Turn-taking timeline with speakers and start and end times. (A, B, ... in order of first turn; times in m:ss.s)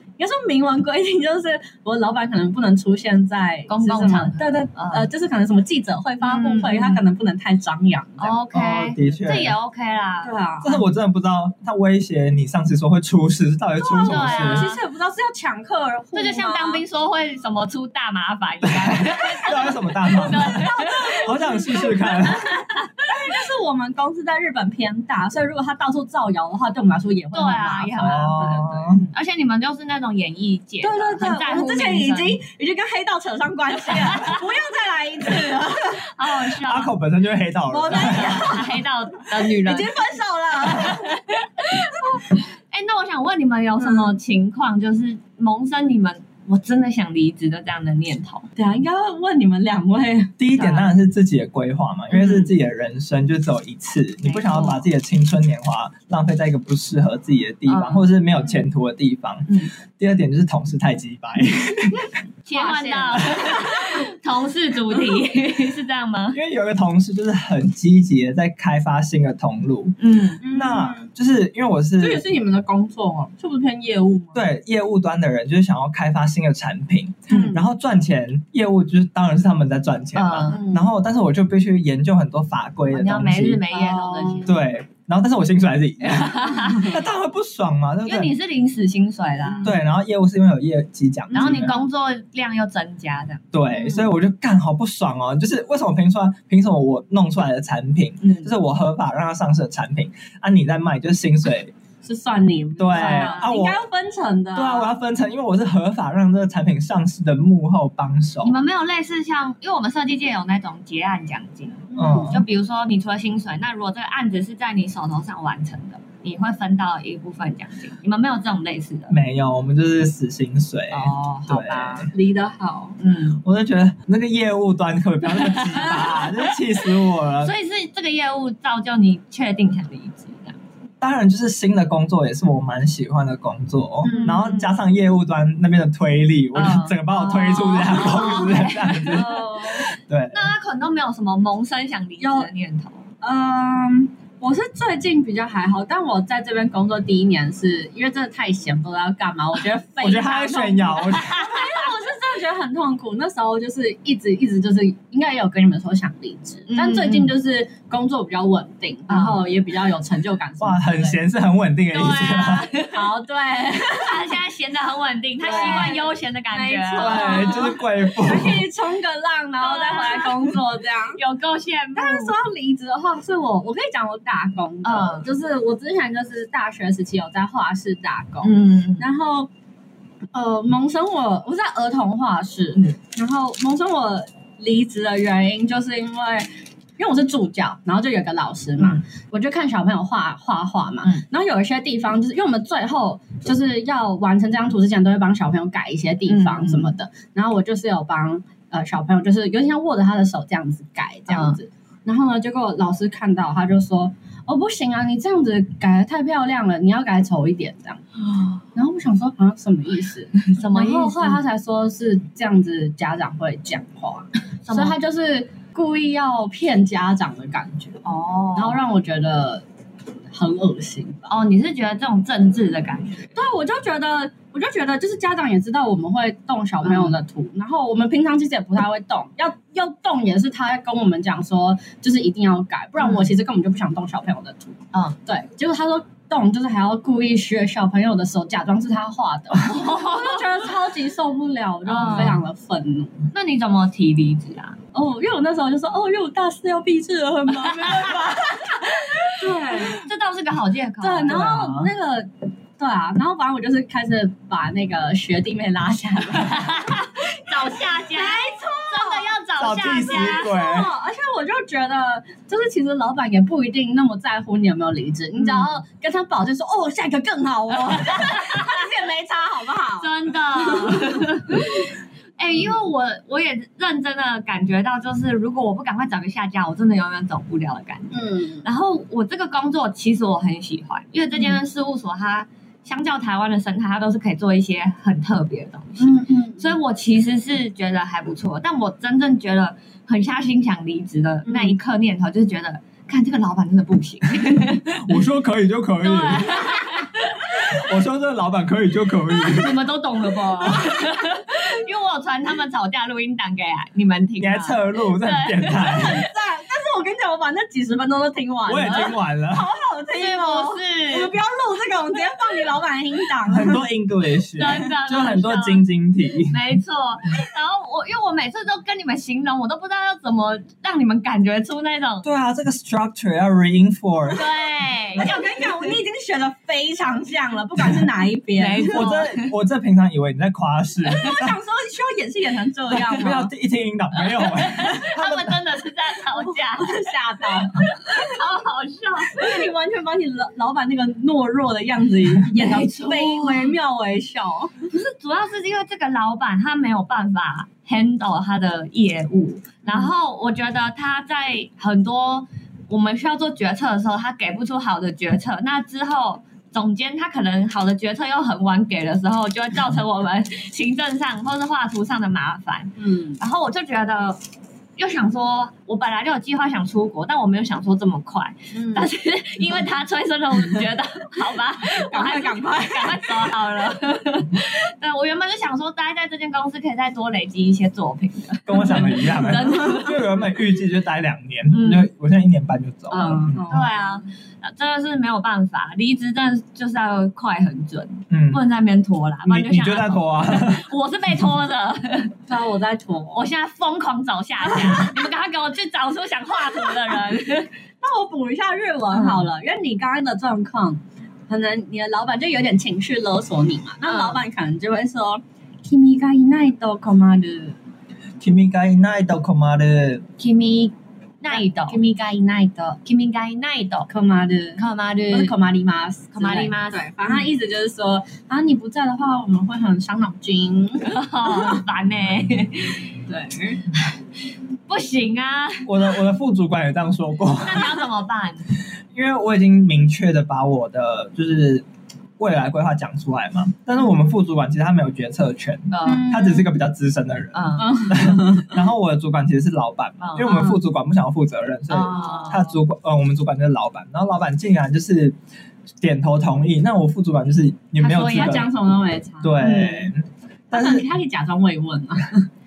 0:00.2-0:08.4 A
0:03.7-0:05.1 B
0:06.2-0:07.0 B
0:08.2-0:10.3 B
0:08.5-0:09.5 C
0:10.2-0:10.8 A
0:10.6-0:14.7 C
0:13.8-0:16.8 A
0:14.0-0:14.8 B
0:16.1-0:23.1 B
0:18.6-0:22.5 C
0:20.5-0:22.5 A
0:23.0-0:29.1 A
0:27.3-0:32.4 B
0:28.0-0:29.0 C
0:30.8-0:36.2 A
0:33.9-0:34.4 B
0:35.9-0:36.9 B
0:36.6-0:38.5 C
0:37.7-0:41.2 A
0:37.9-0:39.9 B
0:40.6-0:48.5 B
0:41.9-0:42.2 A
0:43.8-0:44.1 A
0:48.6-0:50.4 A
0:50.4-1:02.1 C
0:50.6-0:50.9 B
0:52.1-0:52.5 B
0:54.2-0:54.8 B
0:57.7-0:58.1 B
0:59.5-0:59.7 B
1:02.4-1:06.4 B
1:02.5-1:03.9 A
1:06.3-1:10.0 C
1:10.0-1:10.4 B
1:10.4-1:11.1 A
1:10.5-1:12.2 C
1:12.0-1:14.4 A
1:14.3-1:23.6 C
1:17.3-1:17.6 A
1:20.1-1:20.6 B
1:20.5-1:20.9 A
1:22.9-1:24.6 B
1:23.7-1:24.5 A
1:24.4-1:28.3 C
1:26.0-1:27.0 B
1:28.0-1:29.7 B
1:29.4-1:29.8 A
1:29.6-1:31.7 C
1:31.3-1:33.4 B
1:31.3-1:31.7 A
1:33.5-1:41.7 C
1:33.7-1:34.1 A
1:38.2-1:38.5 B
1:42.0-1:44.9 A
1:42.8-1:43.8 C
1:42.9-1:43.5 B
1:44.5-1:48.5 C
1:48.4-1:59.2 B
1:51.9-1:52.4 A
1:52.0-1:52.4 C
1:59.1-2:02.1 C
2:00.9-2:02.1 B
2:02.1-2:03.0 A
2:03.0-2:03.4 B
2:03.4-2:07.5 C
2:05.3-2:06.8 B
2:07.4-2:10.6 B
2:11.0-2:19.4 C
2:14.0-2:14.6 A
2:14.0-2:14.7 B
2:16.5-2:19.4 B
2:17.8-2:19.9 A
2:19.9-2:20.5 C
2:20.3-2:23.0 B
2:22.2-2:22.5 A
2:23.2-2:41.2 A
2:30.0-2:31.5 C
2:31.1-2:31.8 B
2:36.7-2:37.3 B
2:39.1-2:39.4 B
2:40.6-2:42.7 C
2:41.9-2:43.1 B
2:42.9-2:44.4 A
2:43.9-2:47.8 B
2:45.4-2:51.2 A
2:47.0-2:48.6 C
2:49.6-2:50.6 B
2:51.1-2:52.3 B
2:51.9-2:59.5 A
2:54.8-2:55.3 B
2:58.4-2:59.0 B
3:00.3-3:28.0 A
3:16.3-3:16.9 B
3:21.3-3:21.6 B
3:28.7-3:38.0 A
3:30.4-3:31.4 B
3:34.6-3:35.0 B
3:38.0-3:38.8 B
3:38.6-3:39.6 A
3:40.3-3:41.3 A
3:41.3-3:43.4 B
3:43.3-4:03.2 A
3:46.8-3:47.2 B
3:53.0-3:53.3 B
3:59.6-4:00.6 B
4:01.8-4:02.4 B
4:02.0-4:02.4 C
4:03.3-4:04.8 B
4:04.9-4:10.0 A
4:07.6-4:11.4 B
4:11.0-4:16.7 A
4:11.3-4:11.9 C
4:16.4-4:20.5 B
4:17.7-4:19.3 A
4:19.6-4:20.9 C
4:20.0-4:31.8 A
4:25.4-4:25.6 B
4:27.8-4:28.8 B
4:30.0-4:55.2 B
4:38.1-4:38.6 A
4:46.0-4:46.7 A
4:51.4-4:51.8 A
4:54.9-4:56.7 C
4:56.0-4:57.8 B
4:57.5-4:59.8 C
4:59.3-5:06.0 B
5:04.4-5:06.2 C
5:05.7-5:13.8 A
5:08.6-5:09.7 C
5:10.2-5:11.3 B
5:13.5-5:16.6 C
5:14.6-5:15.8 B
5:16.5-5:22.3 B
5:22.2-5:24.4 C
5:24.3-5:25.8 B
5:25.1-5:29.0 A
5:28.6-5:29.5 B
5:28.8-5:31.6 C
5:31.1-5:33.5 A
5:32.9-5:35.6 C
5:34.2-5:37.0 B
5:36.2-5:38.3 A
5:37.7-5:39.7 B
5:39.3-5:44.7 A
5:42.5-5:43.7 B
5:44.9-6:04.4 B
5:49.8-5:50.1 A
6:03.0-6:03.4 A
6:05.0-6:20.4 B
6:08.7-6:09.1 A
6:11.8-6:13.5 A
6:18.6-6:23.7 C
6:21.7-6:22.1 B
6:23.1-6:24.2 A
6:23.1-6:32.4 B
6:28.3-6:28.6 C
6:29.5-6:30.9 C
6:32.5-6:33.4 A
6:33.3-6:37.7 B
6:34.7-6:35.2 A
6:38.0-6:47.8 A
6:39.1-6:39.4 B
6:44.0-6:44.4 B
6:48.4-6:50.2 C
6:50.4-6:52.0 B
6:51.5-6:53.0 A
6:53.0-6:54.1 B
6:54.1-7:01.8 A
6:54.8-6:55.5 B
6:56.3-6:57.0 B
7:01.0-7:03.0 B
7:03.3-7:03.8 A
7:04.9-7:05.9 B
7:05.8-7:08.0 C
7:07.6-7:08.7 B
7:09.1-7:11.8 C
7:12.4-7:25.4 C
7:15.9-7:16.3 B
7:16.0-7:16.7 A
7:17.5-7:18.1 B
7:17.8-7:18.8 A
7:20.2-7:20.8 B
7:21.9-7:22.7 B
7:22.0-7:22.7 A
7:26.0-7:28.7 C
7:28.0-7:28.6 B
7:28.0-7:30.0 A
7:29.4-7:31.1 C
7:29.6-7:30.0 B
7:30.7-7:32.5 A